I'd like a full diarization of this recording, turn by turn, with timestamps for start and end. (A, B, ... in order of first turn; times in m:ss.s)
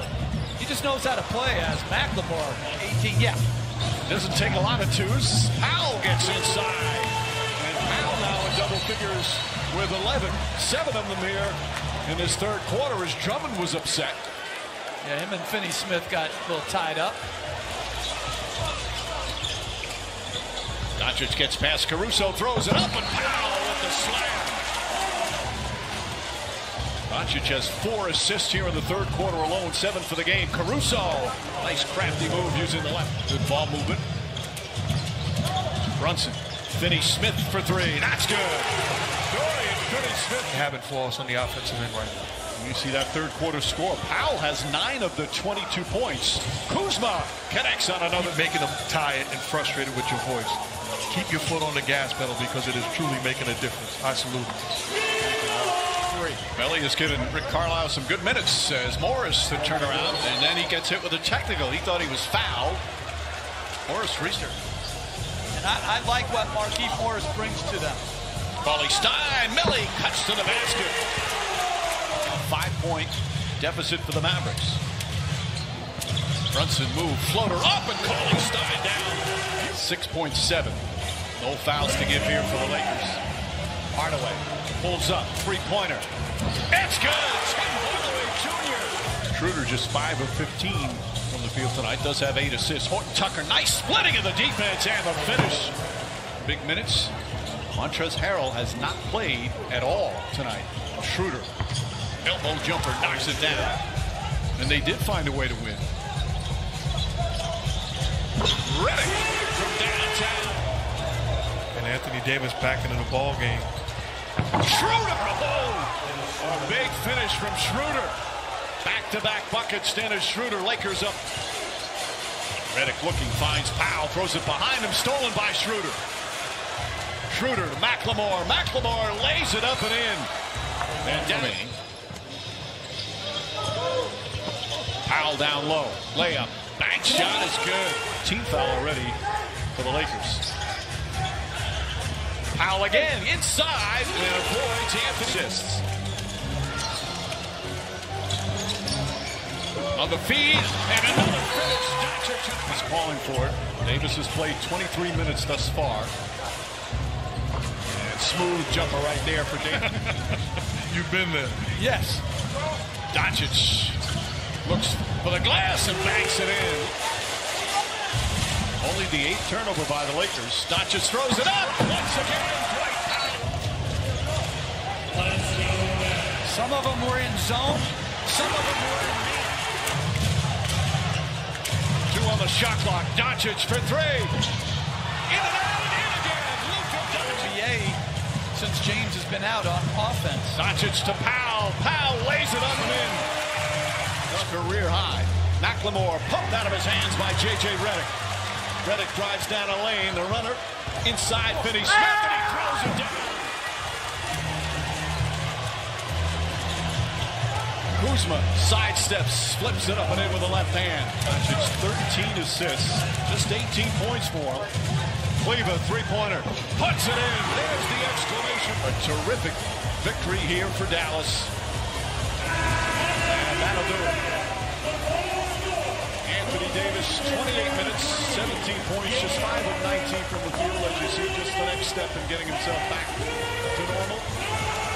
0:00.6-0:03.4 A
0:04.0-0:14.2 B
0:15.0-0:17.3 A
0:21.0-0:24.6 B
0:27.1-0:34.0 B
0:36.0-0:40.7 B
0:40.4-0:42.3 C
0:42.5-0:48.4 B
0:48.2-0:54.6 C
0:55.2-1:02.8 B
1:03.8-1:04.6 B
1:05.5-1:08.1 A
1:08.6-1:11.0 B
1:12.2-1:14.8 B
1:16.5-1:20.8 B
1:21.4-1:23.2 B
1:23.9-1:26.1 B
1:26.7-1:35.7 B
1:36.4-1:37.1 B
1:37.7-1:41.5 B
1:42.2-1:43.8 B
1:44.6-1:45.9 B
1:48.6-1:50.6 B
1:51.7-1:53.7 C
1:54.6-1:58.2 B
1:58.8-2:01.2 B
2:02.7-2:06.0 B
2:07.3-2:10.3 B
2:11.0-2:11.8 B
2:15.0-2:19.2 B
2:19.7-2:20.4 B
2:22.5-2:25.8 B
2:29.9-2:36.1 B
2:37.9-2:40.0 B
2:40.9-2:41.8 C
2:41.7-2:42.2 A
2:43.1-2:44.0 B
2:44.6-2:46.9 B
2:48.8-2:53.5 B
2:56.4-2:59.6 A
3:02.1-3:04.4 B
3:05.3-3:07.5 B
3:07.1-3:08.0 A
3:08.5-3:10.6 A
3:10.5-3:13.3 B
3:14.3-3:18.1 B
3:18.8-3:23.6 B
3:27.9-3:34.7 B
3:35.4-3:41.5 B
3:43.1-3:44.2 B
3:46.2-3:54.3 B